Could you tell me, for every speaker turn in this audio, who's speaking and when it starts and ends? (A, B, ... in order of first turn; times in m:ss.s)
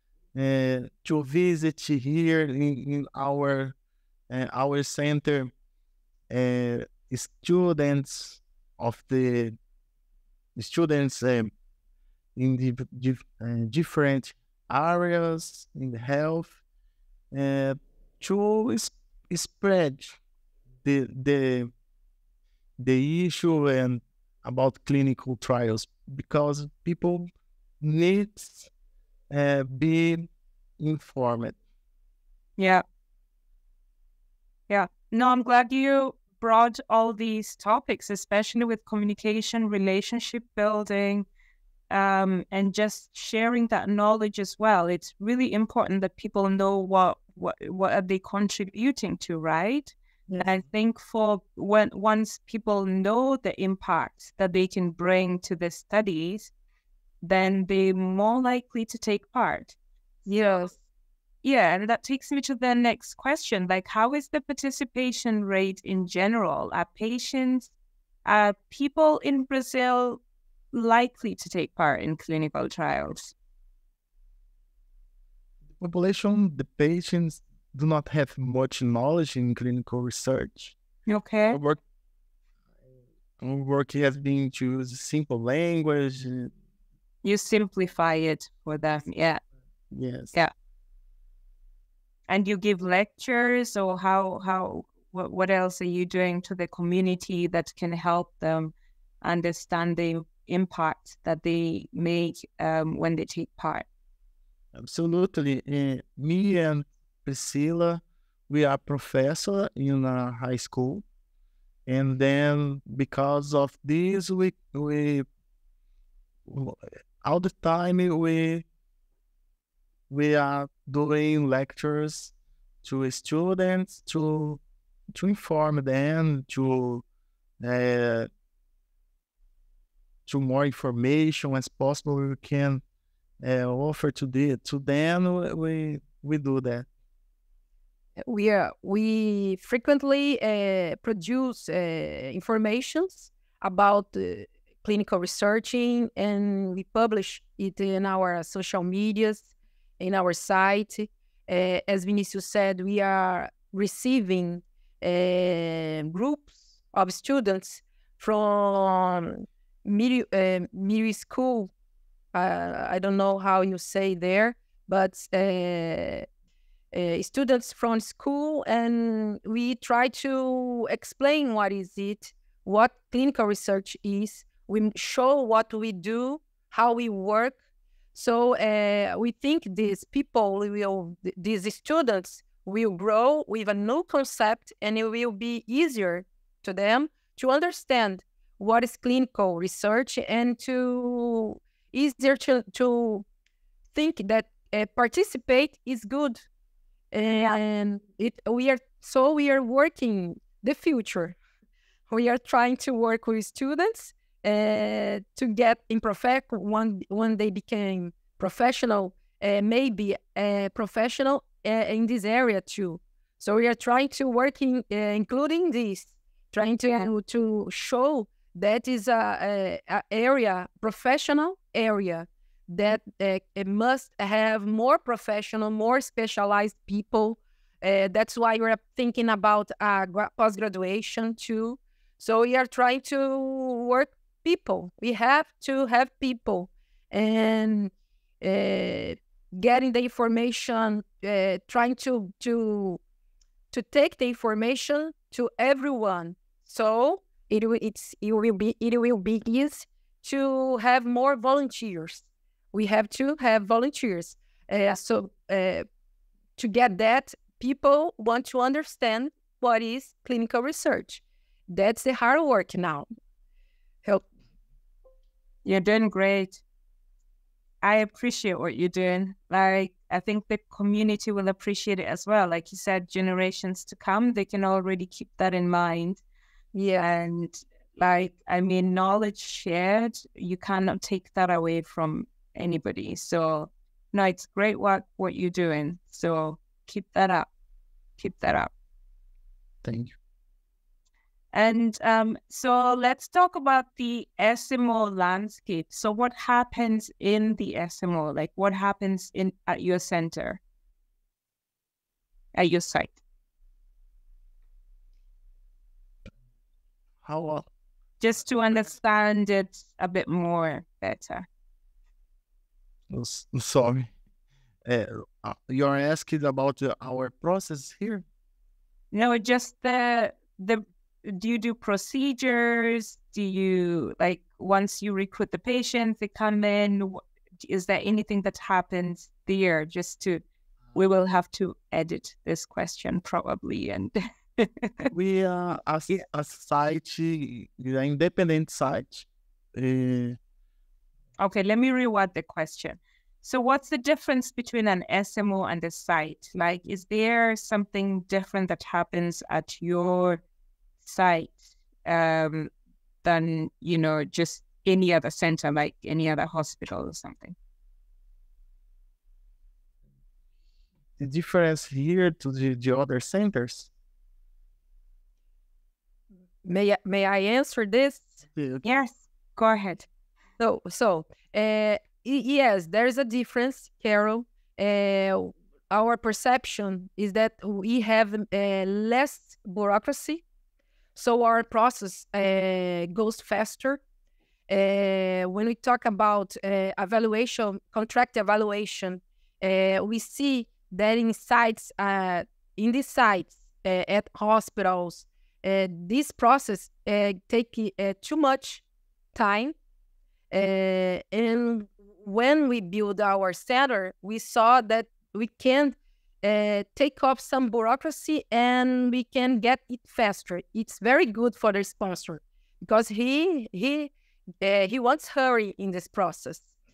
0:00.3-0:03.7 A
0:04.3-0:05.5 A
0:06.3-0:09.6 A
0:10.6-0:11.5 A
0:12.4-0:16.6 A
0:17.3-0:20.2 A
0:20.8-0:21.7 A
0:22.8-0:27.3 A
0:27.8-0:28.7 A
0:29.3-0:31.6 A
0:32.6-0:32.8 B
0:34.7-0:41.2 B
0:41.9-0:56.5 B
0:57.2-0:59.8 B
1:00.3-1:00.7 B
1:01.4-1:07.7 B
1:08.2-1:10.2 B
1:10.7-1:13.3 B
1:15.8-1:20.8 A
1:21.1-1:21.6 B
1:21.5-1:21.8 A
1:23.4-1:26.5 A
1:27.2-1:29.4 B
1:29.9-1:30.3 A
1:32.3-1:43.8 B
1:44.7-1:51.0 A
1:51.9-1:55.2 A
1:56.4-1:58.6 A
2:00.1-2:02.3 A
2:02.8-2:04.6 A
2:05.1-2:07.0 A
2:07.6-2:08.3 A
2:10.2-2:12.8 A
2:13.4-2:16.9 A
2:18.3-2:41.7 C
2:42.3-2:46.2 C
2:46.9-2:57.6 C
2:58.1-3:13.2 C
3:13.9-3:16.4 C
3:17.1-3:21.4 C
3:22.1-4:03.0 C
4:03.7-4:15.8 C
4:16.6-4:23.1 C
4:25.6-4:26.6 B
4:27.8-4:36.2 B
4:36.7-4:37.1 C
4:37.0-4:47.5 B
4:48.2-4:48.7 B
4:49.8-4:50.1 A
4:51.5-5:00.6 B
5:02.5-5:03.1 B
5:07.2-5:07.7 A
5:08.2-5:11.4 B
5:13.1-5:14.1 A
5:14.8-5:18.2 A
5:19.1-5:35.1 B
5:35.1-5:40.4 A
5:41.4-5:50.4 B
5:51.0-5:52.7 B
5:53.2-5:57.5 B
6:01.2-6:03.9 A
6:06.6-6:08.4 C
6:08.5-6:08.8 A
6:08.8-6:10.1 B
6:10.6-6:20.4 C
6:21.1-6:24.0 C
6:24.7-6:38.8 C
6:39.3-6:39.7 C
6:40.5-6:56.6 C